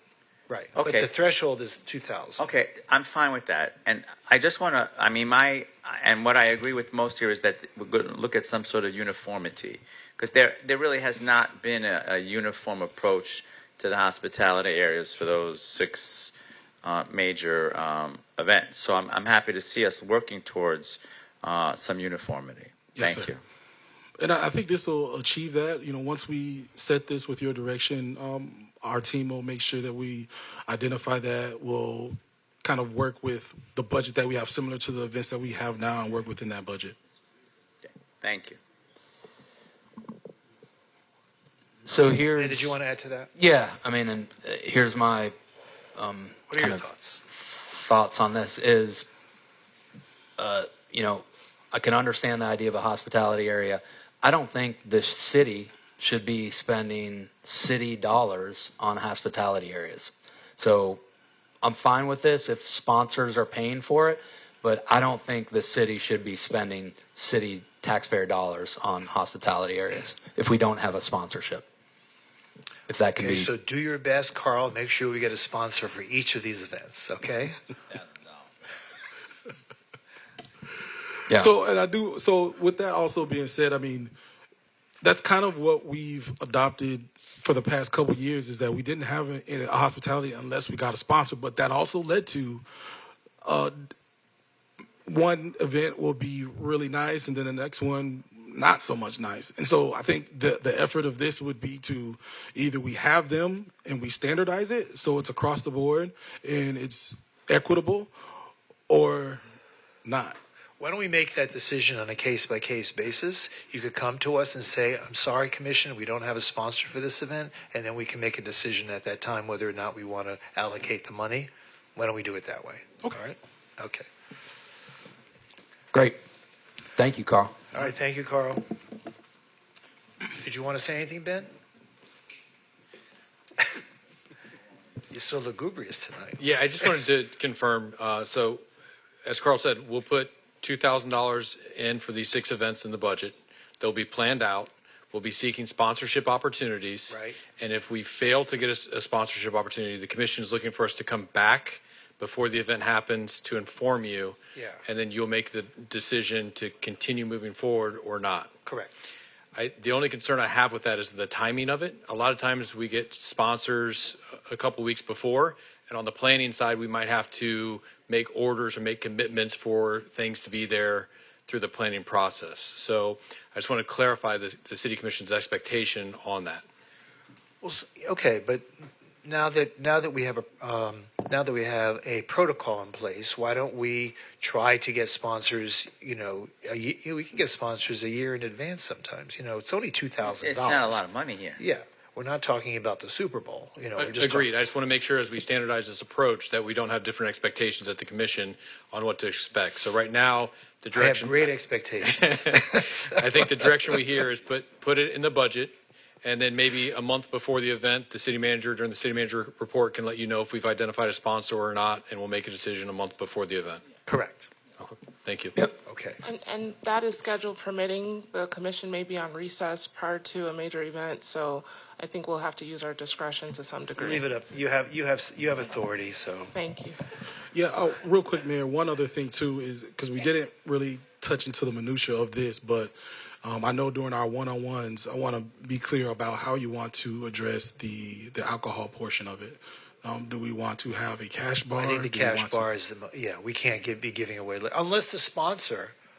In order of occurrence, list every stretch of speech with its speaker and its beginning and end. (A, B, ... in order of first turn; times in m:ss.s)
0:00.5-0:02.4 A
0:00.7-0:01.1 B
0:02.4-0:23.4 B
0:22.9-0:23.3 C
0:24.2-0:37.0 C
0:37.8-0:38.6 B
0:41.8-0:42.8 D
0:42.3-0:43.3 A
0:43.4-0:45.3 D
0:46.0-0:46.9 D
0:46.5-0:47.2 A
0:47.4-0:49.0 D
0:50.4-1:01.0 D
1:01.6-1:11.6 D
1:12.9-1:13.5 D
1:13.2-1:17.6 A
1:21.3-1:24.1 C
1:25.0-1:32.6 C
1:33.4-1:33.9 C
1:35.0-1:48.1 C
1:48.9-1:49.4 C
1:50.0-1:50.4 C
1:50.8-2:04.1 A
2:07.0-2:07.5 D
2:07.7-2:08.7 A
2:10.4-2:11.5 A
2:15.1-2:16.4 A
2:16.4-2:18.6 E
2:19.2-2:38.5 E
2:27.1-2:27.4 A
2:34.5-2:34.8 A
2:38.6-2:38.9 A
2:39.5-2:56.6 E
2:57.6-2:58.7 A
2:59.2-3:11.0 A
3:10.2-3:11.6 B
3:11.6-3:14.5 A
3:14.0-3:21.5 E
3:20.9-3:23.3 A
3:22.0-3:33.8 E
3:34.0-3:34.5 A
3:34.8-3:35.5 E
3:35.8-3:36.2 A
3:36.2-3:44.2 F
3:44.0-3:46.5 A
3:46.5-3:47.0 F
3:47.5-4:02.7 C
4:01.8-4:05.9 A